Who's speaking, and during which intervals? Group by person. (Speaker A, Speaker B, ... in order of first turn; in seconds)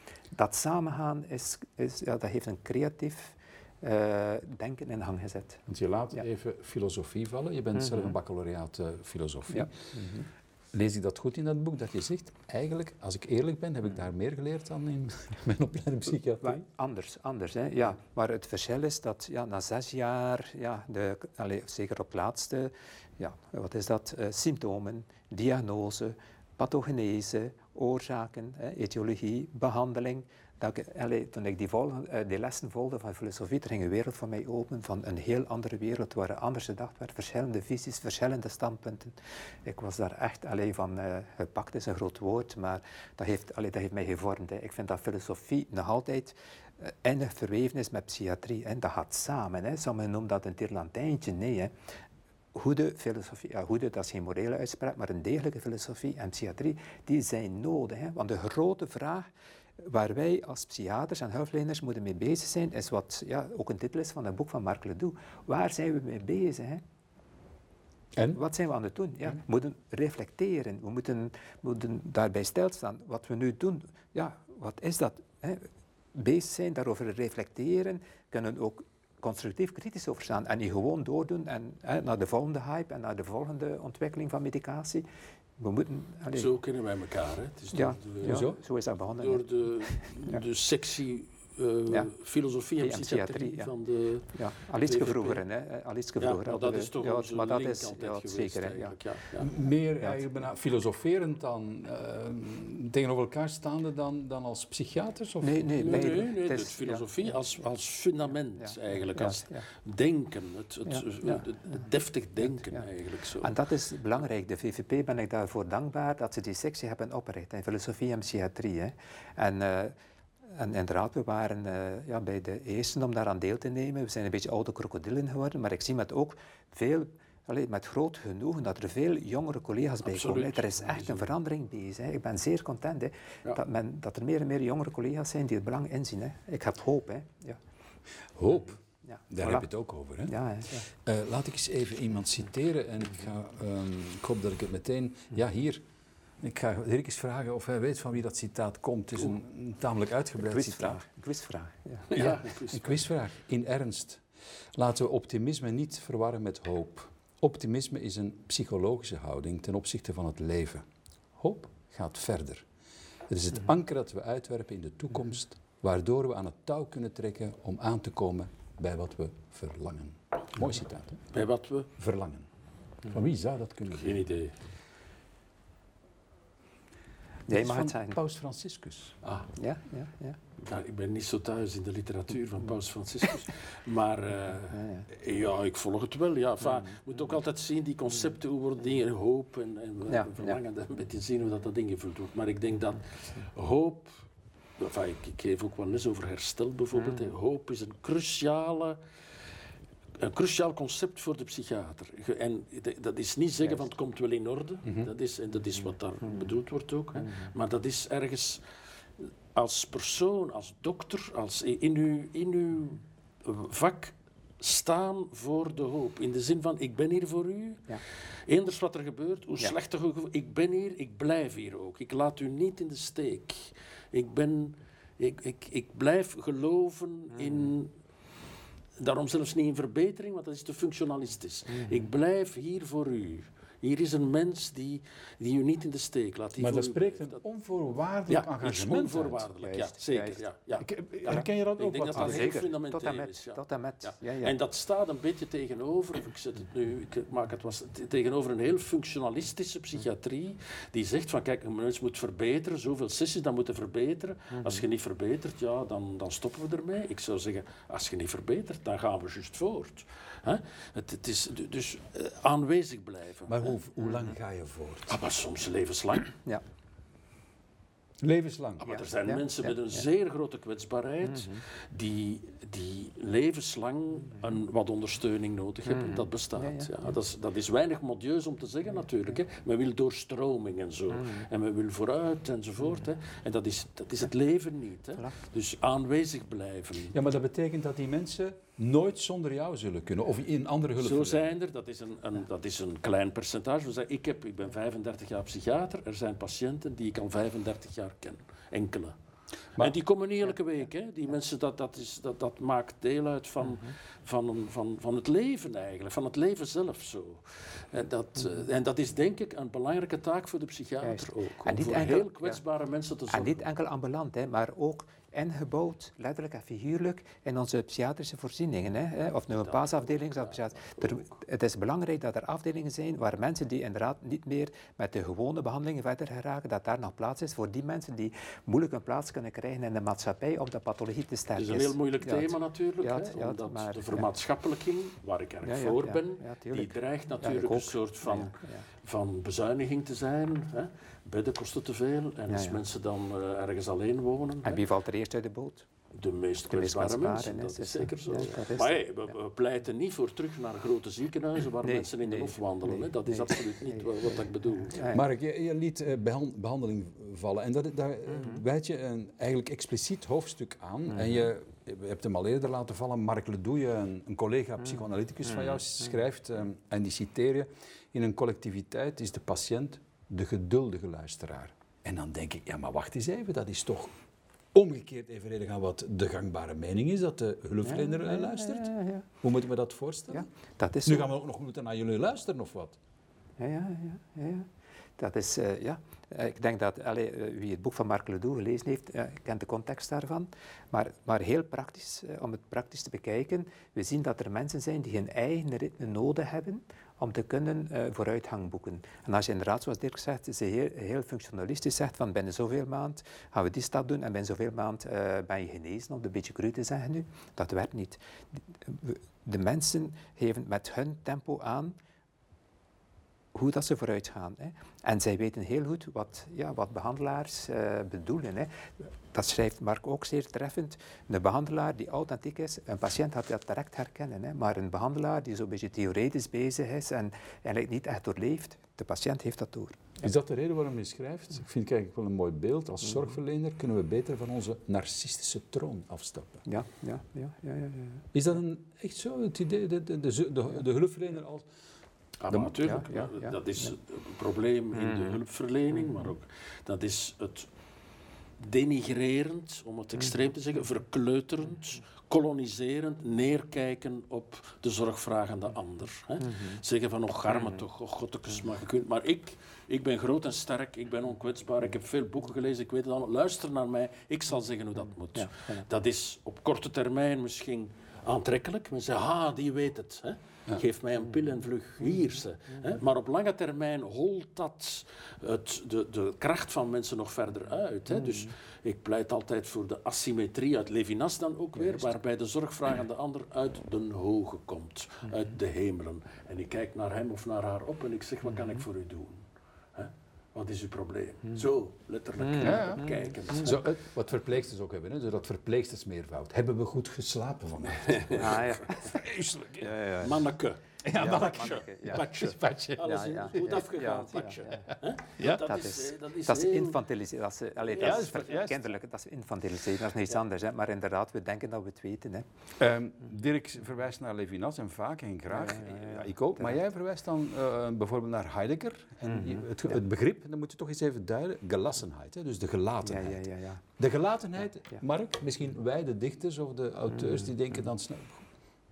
Speaker A: 0.3-5.6, 9.5-10.3, 16.4-51.7, 52.5-59.3, 59.8-66.8, 68.3-85.0, 85.6-86.5, 87.7-89.5, 92.8-93.7, 94.3-99.0, 105.4-107.3, 108.6-109.6, 110.9-111.5, 113.4-120.0, 120.5-137.6, 139.0-139.7, 140.3-140.8, 150.4-152.1, 177.5-178.2, 179.6-180.4, 184.7-185.0, 190.1-190.6, 239.6-240.4, 242.2-244.5, 268.9-270.0, 275.9-276.9, 311.0-312.6, 313.3-334.3, 335.6-338.9, 342.5-342.8, 344.6-345.9, 346.7-349.3, 351.8-354.1, 354.8-355.2, 361.2-361.4, 377.8-379.2, 380.3-381.3, 383.6-384.7, 385.2-408.2, 408.8-411.9, 413.5-430.2, 436.6-438.3, 442.6-443.6, 445.1-445.4, 465.4-465.8, 478.2-478.5, 481.8-482.1, 492.6-493.3, 498.3-499.1, 499.8-500.4, 501.1-502.3, 503.1-504.9, 505.4-512.4, 515.5-516.8, 519.4-520.0, 523.0-523.8
Speaker B: 5.7-9.7, 10.7-16.6, 88.2-88.6, 99.4-106.2, 138.3-138.8, 139.3-140.3, 140.9-145.8, 146.4-151.0, 152.1-162.7, 163.3-171.2, 172.0-172.5, 173.1-174.2, 177.5-179.2, 236.6-239.5, 240.8-242.6, 263.5-265.2, 268.2-268.8, 287.1-291.4, 355.1-374.1, 374.7-380.5, 381.0-383.0, 430.2-436.6, 438.3-441.7, 492.6-499.9, 501.0-505.6, 508.0-508.9, 512.8-523.4, 524.0-528.4
Speaker C: 86.3-88.5, 89.2-94.3, 94.8-95.4, 96.2-99.5, 105.8-113.5, 130.0-131.3, 152.1-153.0, 171.3-171.9, 173.9-174.5, 179.2-179.5, 180.6-194.2, 194.8-199.0, 200.2-208.6, 209.2-217.8, 218.5-227.9, 229.0-237.4, 238.3-263.7, 265.1-266.4, 268.8-287.1, 291.0-299.1, 299.8-313.6, 319.6-321.3, 331.6-344.8, 346.1-355.1, 442.4-447.7, 448.6-493.8, 498.1-499.1, 500.2-507.0, 507.8-508.5